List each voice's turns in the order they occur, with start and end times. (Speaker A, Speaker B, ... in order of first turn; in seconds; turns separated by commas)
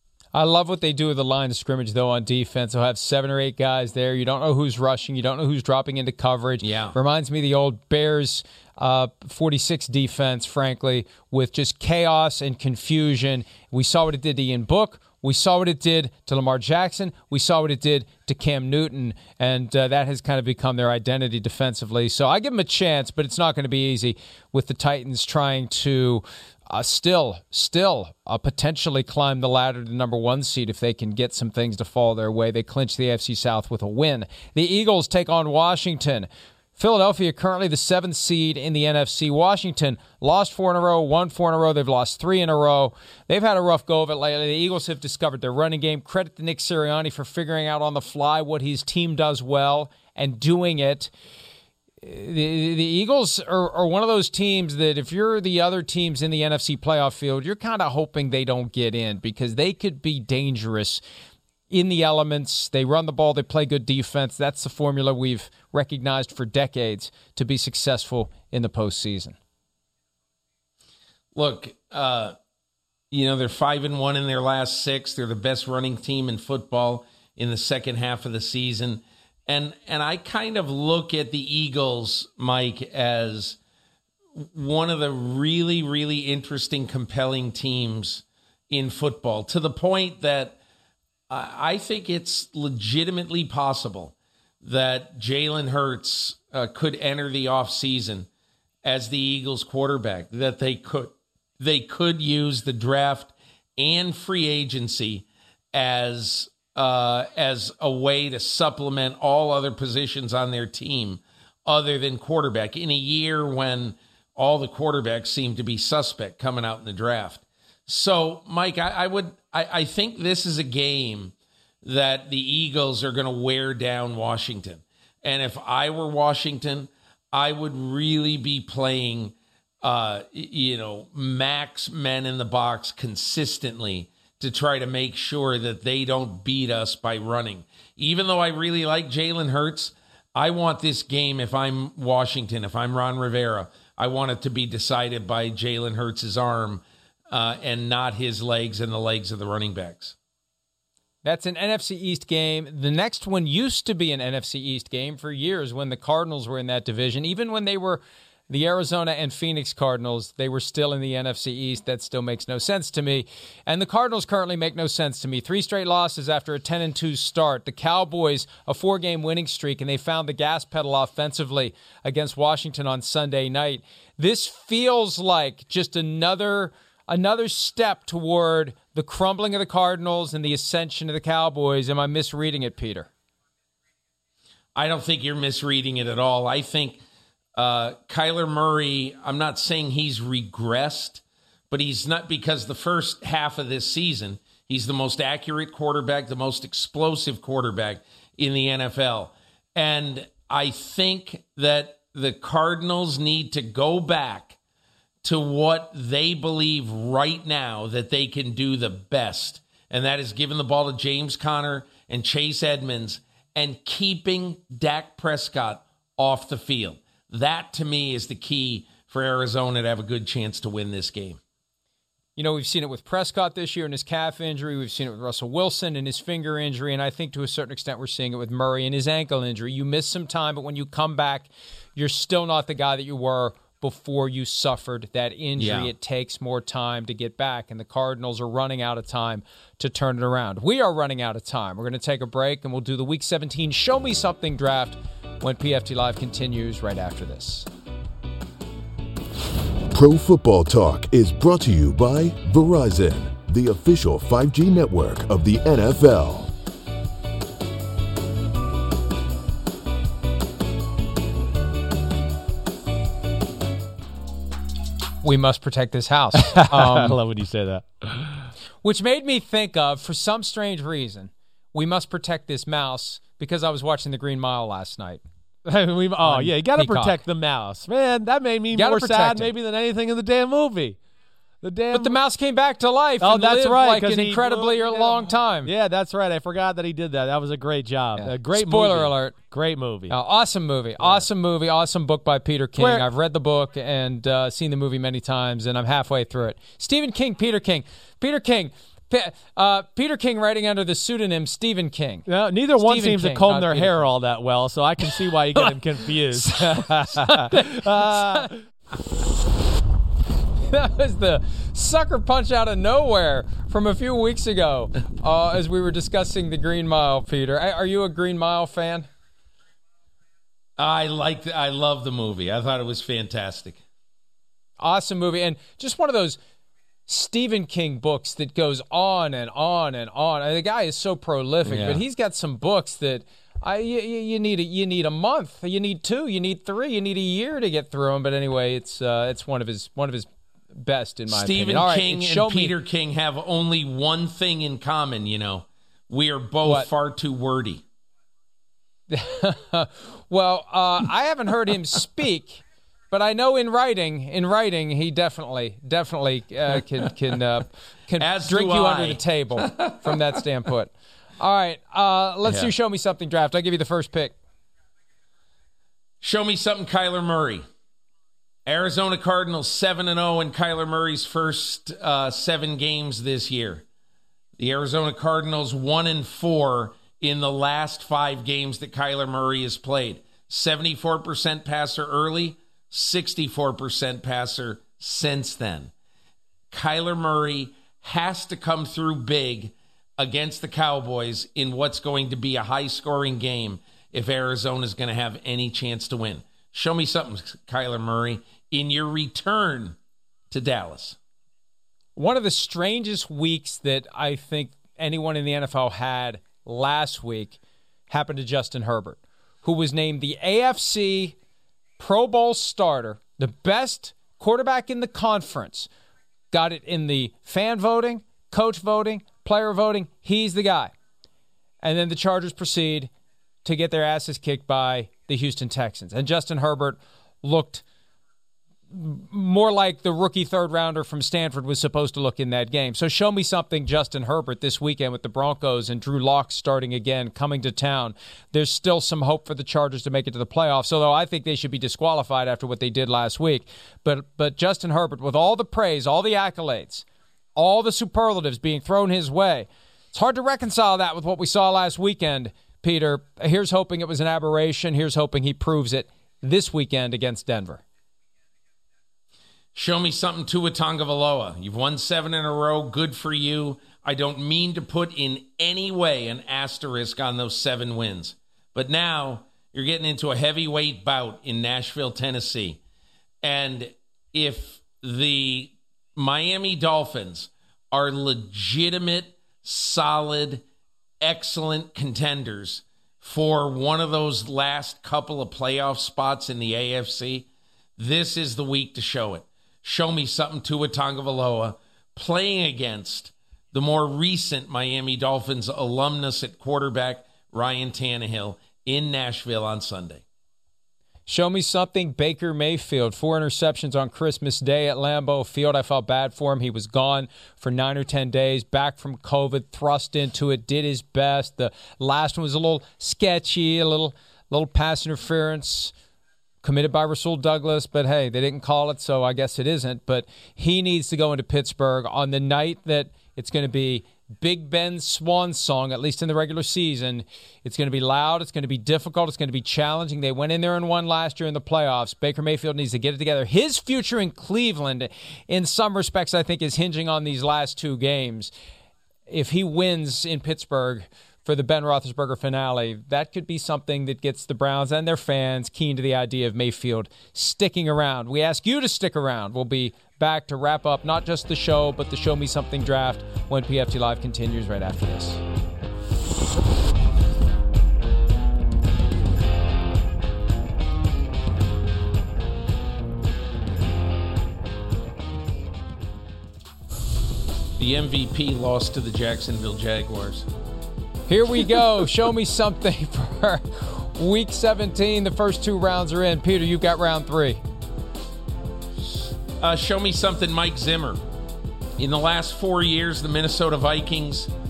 Speaker A: 0.3-51.1, Speaker B: 6.6-7.0, Speaker A: 52.0-61.0, Speaker A: 61.7-69.4, Speaker B: 71.3-72.3, Speaker B: 73.1-83.6, Speaker B: 84.4-90.6, Speaker B: 91.3-98.3, Speaker B: 98.8-150.2, Speaker A: 151.2-183.1, Speaker B: 184.8-187.0, Speaker B: 187.6-204.6, Speaker B: 205.2-221.4, Speaker A: 222.4-247.7, Speaker B: 235.6-235.9, Speaker C: 249.9-256.5, Speaker A: 265.2-267.2, Speaker D: 266.4-268.5, Speaker A: 268.8-275.2, Speaker D: 275.6-281.0, Speaker A: 276.2-277.2, Speaker A: 278.7-279.5, Speaker D: 281.6-282.2, Speaker A: 281.9-285.7, Speaker D: 283.2-290.1, Speaker A: 288.2-289.4, Speaker A: 290.1-304.0, Speaker D: 291.0-291.3, Speaker D: 292.8-293.1, Speaker D: 302.3-308.6, Speaker A: 305.2-305.8, Speaker A: 306.3-308.6, Speaker A: 310.7-319.1, Speaker B: 320.8-323.8, Speaker A: 324.8-326.4, Speaker A: 327.1-342.7, Speaker B: 331.6-332.0, Speaker B: 341.3-347.8, Speaker A: 346.6-346.9, Speaker A: 349.1-364.4, Speaker B: 358.2-360.4, Speaker B: 362.5-362.7, Speaker B: 366.2-367.6, Speaker B: 368.7-373.8, Speaker B: 374.6-385.9, Speaker B: 386.7-400.0, Speaker B: 400.5-401.2, Speaker A: 402.2-411.4, Speaker A: 412.0-415.9, Speaker A: 416.5-420.9, Speaker A: 421.8-423.1, Speaker A: 423.6-427.8, Speaker A: 428.9-447.1, Speaker A: 447.6-457.8, Speaker B: 459.8-472.8, Speaker B: 473.4-480.6, Speaker B: 481.2-487.5, Speaker B: 488.0-500.2, Speaker A: 501.3-515.9, Speaker A: 516.6-538.5, Speaker A: 539.3-555.4, Speaker B: 567.8-570.5, Speaker A: 571.3-577.6, Speaker B: 579.6-581.2, Speaker B: 582.0-584.5